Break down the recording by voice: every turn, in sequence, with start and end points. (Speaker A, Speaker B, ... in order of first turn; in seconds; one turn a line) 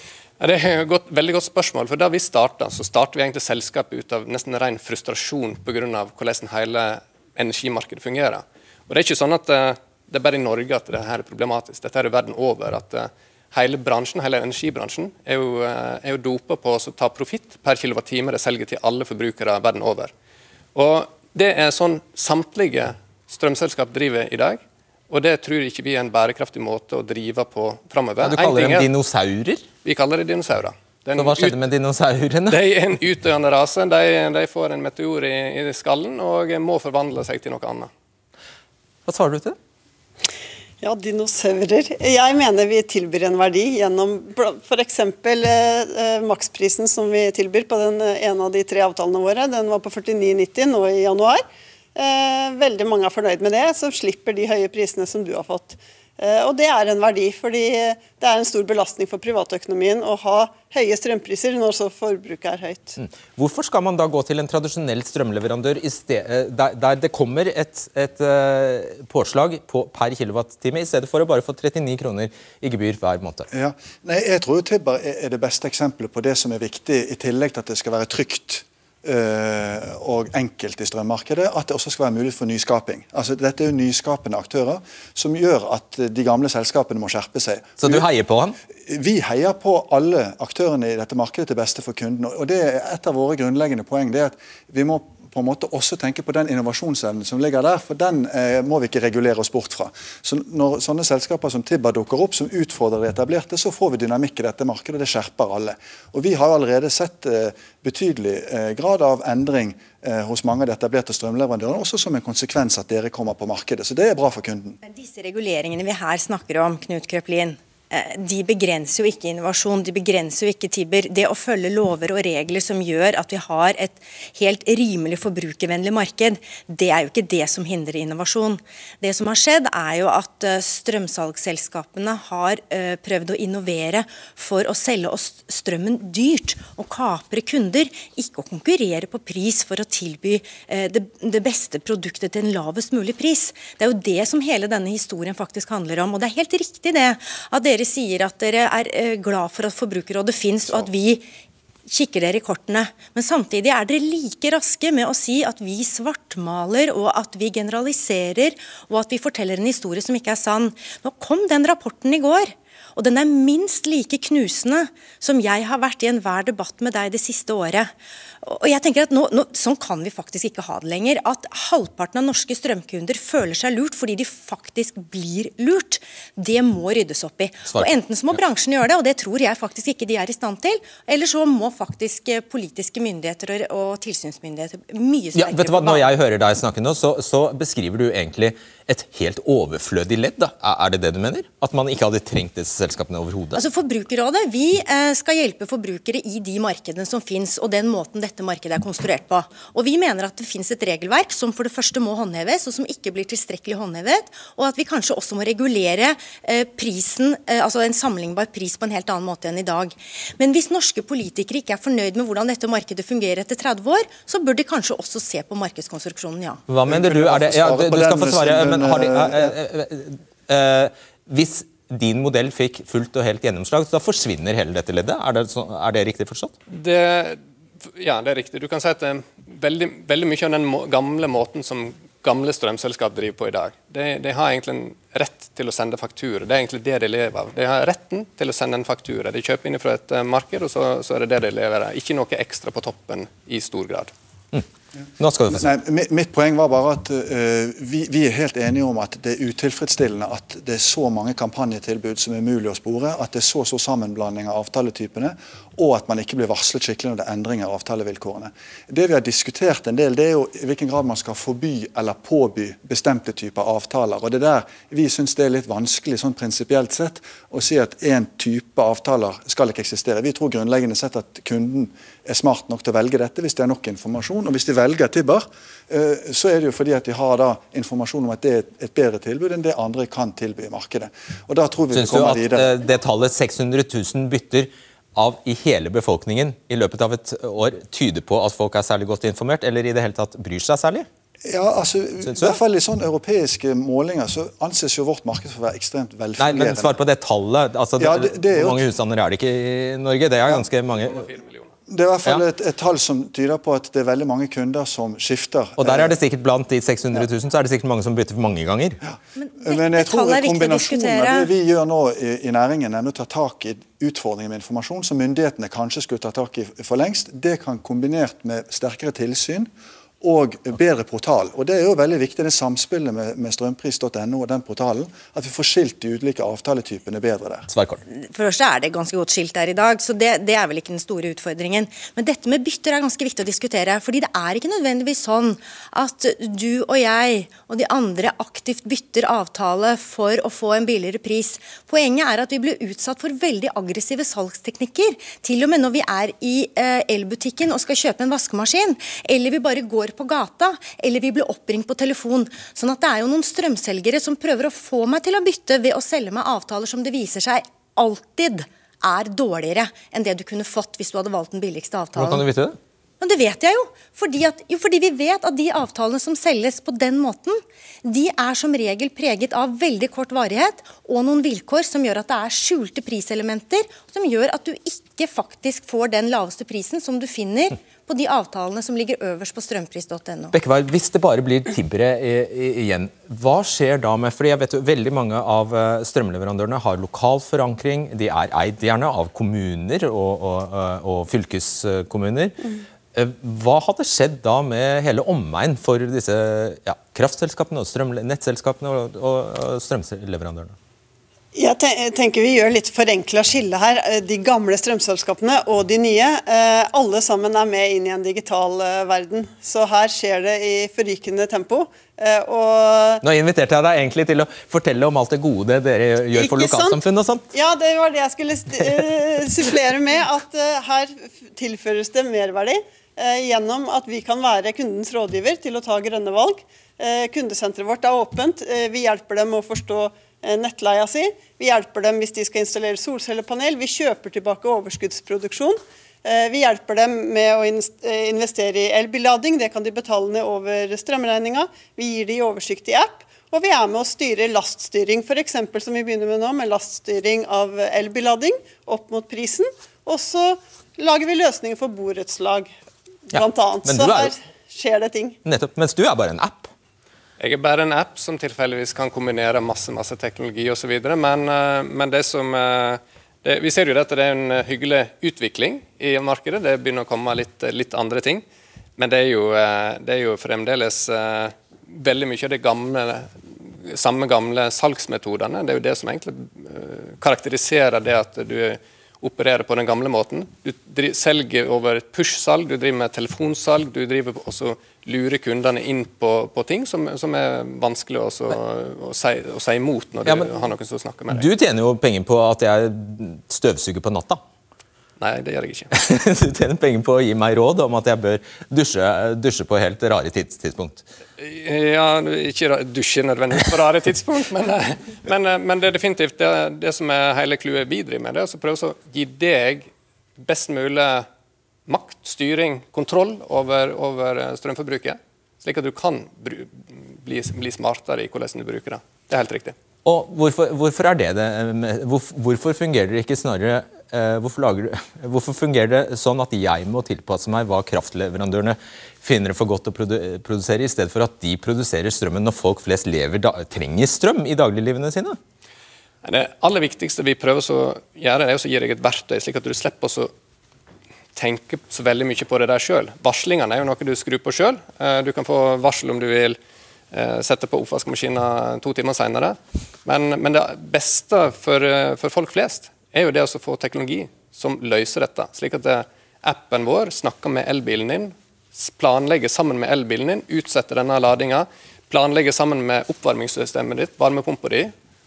Speaker A: 0.4-20.1
Speaker A: 20.8-28.9
Speaker B: 28.2-29.7
Speaker A: 29.8-31.6
Speaker B: 31.2-32.6
Speaker A: 32.5-37.9
Speaker B: 39.1-39.6
Speaker C: 40.8-51.4
Speaker C: 52.0-63.0
Speaker B: 63.0-73.5
Speaker D: 73.5-88.0
Speaker B: 87.8-88.6
Speaker D: 88.9-114.8
Speaker E: 114.8-151.3
Speaker E: 151.9-186.1
Speaker B: 185.4-193.6
Speaker E: 193.5-216.6
Speaker B: 216.7-226.6
Speaker D: 216.8-219.5
Speaker A: 226.7-227.4
Speaker A: 228.0-244.1
Speaker B: 245.2-245.7
Speaker D: 245.5-282.7
Speaker B: 281.9-291.1
Speaker D: 291.4-297.0
Speaker B: 292.3-292.6
Speaker B: 296.4-301.3
Speaker D: 298.0-298.9
Speaker A: 300.9-301.7
Speaker D: 301.9-306.2
Speaker B: 305.8-309.0
Speaker D: 309.1-319.7
Speaker E: 309.4-311.5
Speaker D: 320.2-327.7
Speaker B: 327.7-328.0
Speaker E: 328.1-362.5
Speaker B: 362.2-362.8
Speaker E: 363.2-380.6
Speaker B: 380.5-392.6
Speaker B: 393.1-400.8
Speaker C: 401.5-413.2
Speaker B: 413.2-417.5
Speaker C: 416.4-417.0
Speaker C: 417.5-452.7
Speaker C: 453.3-455.4
Speaker B: 453.3-454.3
Speaker B: 455.4-456.7
Speaker A: 457.4-468.4
Speaker A: 469.0-491.5
Speaker B: 490.2-490.5
Speaker B: 491.3-494.4
Speaker A: 495.2-495.9
Speaker B: 495.9-501.0
Speaker A: 501.4-511.3
Speaker A: 511.9-519.8
Speaker B: 520.0-535.4
Speaker A: 536.2-540.3
Speaker A: 541.4-546.6
Speaker A: 547.1-564.9